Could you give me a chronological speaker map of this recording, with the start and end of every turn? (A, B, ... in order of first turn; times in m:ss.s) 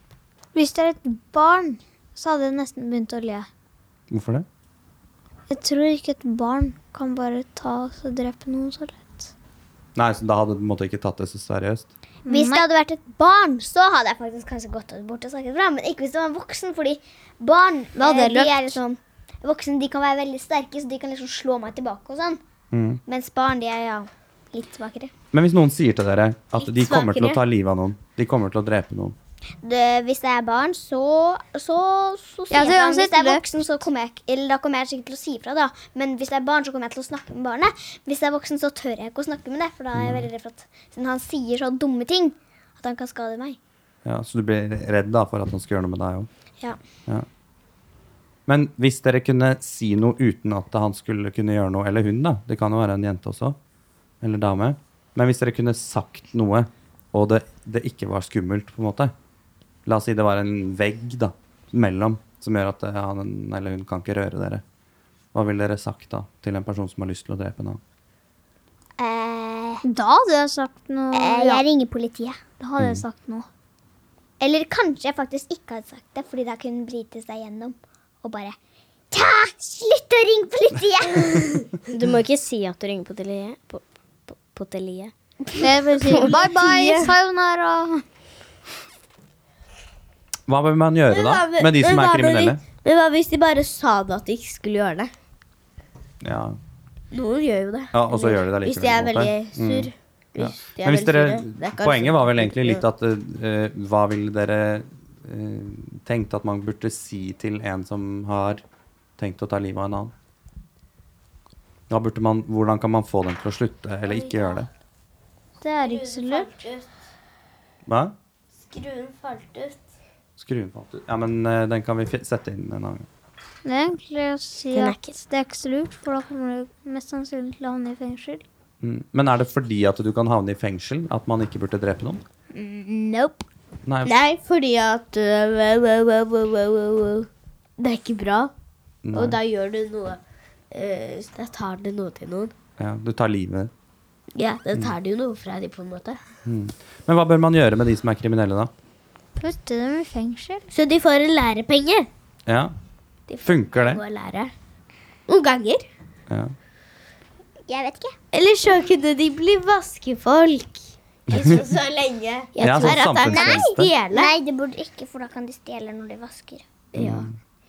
0:00.5-0:03.5 A
0:04.1-0:04.5 B
0:05.5-0:09.3 A
0:10.0-0:11.9 B
0:12.3-0:12.6 A
0:12.3-0:22.4 C
0:18.0-0:18.8 A
0:22.7-0:23.0 B
0:23.1-0:25.1 C
0:25.3-0:29.2 B
0:26.6-0:27.4 D
0:29.6-0:43.6 C
0:32.5-0:33.5 A
0:40.0-0:40.3 B
0:44.0-0:46.3 B
0:48.5-0:53.6 B
0:54.2-0:59.1 B
0:59.9-1:04.6 B
1:05.3-1:07.8 B
1:09.0-1:09.8 C
1:09.8-1:11.6 A
1:11.1-1:12.4 C
1:12.6-1:13.5 A
1:12.8-1:13.0 B
1:14.4-1:18.6 C
1:19.1-1:21.7 C
1:21.9-1:25.1 E
1:25.6-1:28.0 A
1:26.1-1:27.1 D
1:30.5-1:32.6 B
1:31.1-1:35.1 D
1:36.2-1:36.6 B
1:37.1-1:42.8 D
1:37.9-1:48.6 B
1:49.2-1:50.1 B
1:51.9-1:54.7 B
1:54.1-1:54.6 D
1:55.6-1:56.5 A
1:55.8-1:56.9 D
1:57.9-1:58.2 B
1:58.6-1:59.8 D
2:00.4-2:03.1 B
2:03.6-2:08.4 A
2:04.7-2:05.2 E
2:08.8-2:12.2 B
2:12.5-2:13.4 A
2:13.9-2:14.1 B
2:14.0-2:18.5 D
2:19.0-2:19.4 B
2:19.1-2:20.2 D
2:20.7-2:22.5 D
2:22.8-2:23.7 B
2:24.4-2:26.2 D
2:26.4-2:28.7 B
2:29.4-2:30.7 A
2:30.7-2:32.1 D
2:32.5-2:32.7 B
2:33.3-2:34.5 D
2:33.4-2:34.0 B
2:35.3-2:35.8 D
2:36.3-2:36.5 B
2:37.7-2:38.2 C
2:38.3-2:44.3 D
2:41.3-2:41.6 B
2:42.6-2:43.9 B
2:42.6-2:43.0 E
2:43.2-2:46.6 C
2:47.0-2:47.3 D
2:47.0-2:47.3 B